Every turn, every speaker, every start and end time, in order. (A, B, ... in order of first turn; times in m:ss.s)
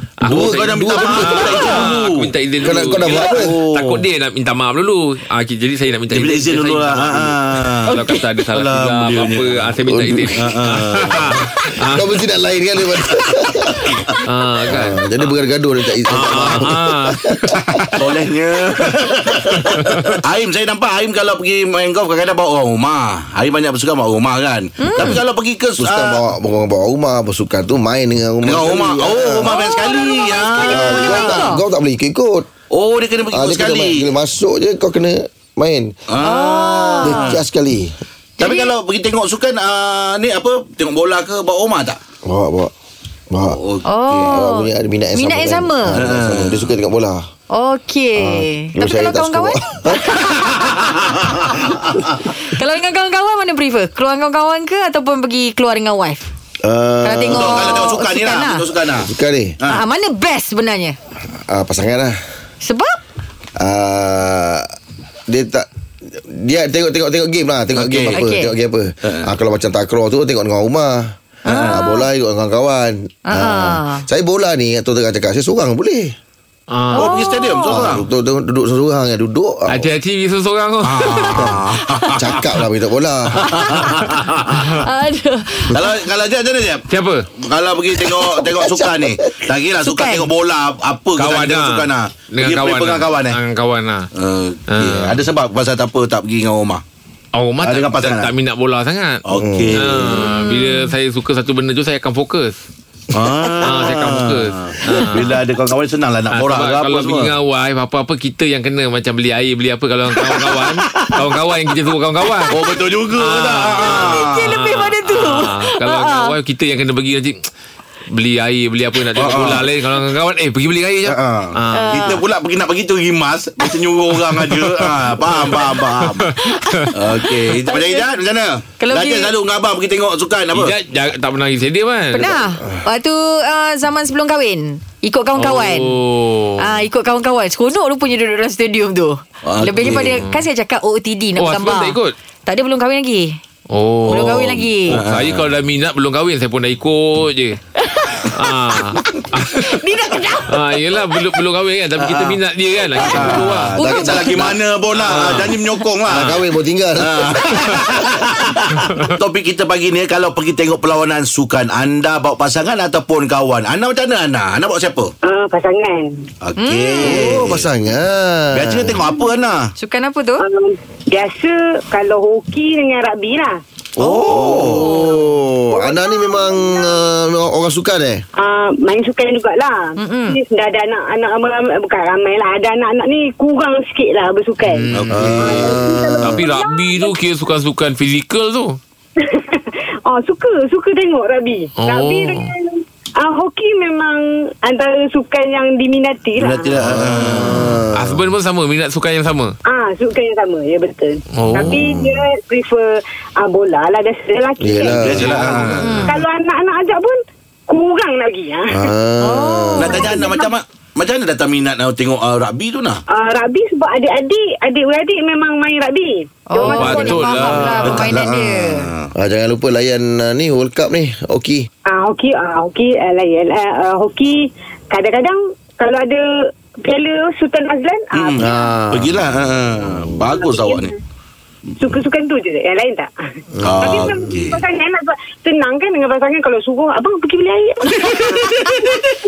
0:00.2-0:12.1 A
0:00.2-0:04.0 B
0:00.3-0:01.7 C
0:02.6-0:03.5 C
0:06.1-0:09.7 B
0:09.9-0:10.4 C
0:10.3-0:11.4 B
0:11.8-0:13.9 C
0:13.7-0:14.2 B
0:14.2-0:15.0 A
0:14.7-0:17.6 C
0:16.1-0:18.1 A
0:16.1-0:16.7 B
0:18.0-0:26.2 B
0:19.7-0:20.1 A
0:24.8-0:25.2 D
0:25.8-0:29.5 C
0:28.4-0:31.4 B
0:29.4-0:31.6 D
0:30.6-0:32.5 C
0:32.7-0:34.1 B
0:33.3-0:36.0 C
0:36.1-0:37.4 B
0:36.2-0:37.3 D
0:37.0-0:38.0 C
0:38.4-0:42.0 B
0:38.4-0:38.7 D
0:42.2-0:42.7 C
0:43.3-0:43.6 C
0:43.5-0:44.2 B
0:43.8-0:46.0 D
0:44.2-0:47.2 C
0:45.9-0:46.7 B
0:47.5-0:51.8 D
0:48.2-0:50.0 C
0:50.4-0:51.8 B
0:52.4-0:56.3 D
0:56.6-0:57.9 C
0:57.0-0:58.6 D
0:57.3-0:59.8 B
0:59.0-0:59.6 C
0:59.6-1:01.0 D
1:01.5-1:02.1 C
1:02.6-1:03.0 D
1:03.6-1:04.7 C
1:05.3-1:16.1 C
1:07.7-1:08.2 B
1:08.1-1:08.5 D
1:09.0-1:09.3 B
1:11.4-1:12.0 D
1:11.5-1:11.8 B
1:13.3-1:14.0 D
1:16.7-1:17.2 A
1:16.9-1:17.8 D
1:16.9-1:18.0 B
1:17.7-1:19.9 C
1:19.7-1:21.5 A
1:20.8-1:22.4 B
1:22.2-1:23.6 C
1:23.4-1:24.8 B
1:23.5-1:23.8 D
1:24.1-1:24.8 A
1:24.7-1:25.8 D
1:25.7-1:26.8 B
1:26.9-1:27.3 A
1:27.4-1:33.4 B
1:28.3-1:29.1 C
1:29.8-1:30.3 D
1:31.2-1:34.1 A
1:34.1-1:36.8 B
1:34.7-1:35.2 A
1:37.3-1:39.2 A
1:37.6-1:38.3 B
1:39.2-1:40.3 B
1:39.3-1:39.8 C
1:39.7-1:42.6 A
1:40.2-1:40.9 D
1:43.1-1:47.3 B
1:43.6-1:45.4 A
1:46.3-1:52.6 A
1:50.2-1:51.2 B
1:52.5-1:54.5 B
1:53.2-1:57.4 A
1:54.0-1:56.3 D
1:58.1-2:01.9 A
1:59.2-1:59.7 B
2:01.0-2:06.3 B
2:01.7-2:02.2 D
2:06.1-2:06.9 A
2:06.6-2:08.0 D
2:06.9-2:10.7 B
2:08.8-2:09.3 D
2:10.5-2:12.4 A
2:12.1-2:16.0 D
2:15.4-2:16.8 A
2:16.6-2:23.4 D
2:19.4-2:20.2 B
2:19.8-2:20.4 A
2:21.4-2:22.1 A
2:23.7-2:27.6 A
2:24.1-2:25.0 D
2:24.1-2:25.4 B
2:27.8-2:28.4 D
2:28.3-2:29.9 A
2:29.6-2:31.2 D
2:30.4-2:33.8 A
2:32.0-2:32.4 B
2:33.0-2:36.4 B
2:33.2-2:34.5 D
2:33.9-2:34.5 C
2:34.9-2:35.6 A
2:36.1-2:37.4 C
2:36.1-2:36.4 A
2:37.0-2:45.1 B
2:37.5-2:37.8 A
2:45.2-2:46.2 E
2:46.4-2:47.7 B
2:46.6-2:47.4 D
2:47.0-2:49.0 C
2:48.5-2:49.7 B
2:49.8-2:50.4 D
2:50.4-2:53.6 E
2:54.0-2:55.0 B
2:54.2-2:55.0 D
2:54.3-2:58.2 C
2:55.7-2:57.0 E
2:58.4-3:07.1 E
3:00.0-3:00.4 D
3:04.6-3:08.8 A
3:04.9-3:05.6 B
3:05.1-3:06.4 C
3:09.2-3:16.8 E
3:11.8-3:12.5 A
3:16.4-3:17.8 B
3:16.8-3:18.2 C
3:17.9-3:19.5 A
3:19.6-3:28.9 E
3:21.4-3:22.1 A
3:24.6-3:26.0 C
3:24.9-3:25.9 B
3:25.8-3:26.1 D
3:28.7-3:30.1 C
3:29.2-3:30.5 D
3:29.8-3:33.0 B
3:29.9-3:30.4 E
3:33.1-3:37.8 E
3:36.5-3:38.9 D
3:36.6-3:38.1 A
3:37.6-3:39.1 B
3:38.1-3:38.4 C
3:39.2-3:41.6 C
3:41.9-3:46.2 E
3:46.8-3:48.6 E
3:48.1-3:50.9 B
3:48.4-3:49.2 C
3:50.2-3:50.9 E
3:51.8-3:58.8 E
3:53.6-3:54.6 B
3:57.9-3:58.9 B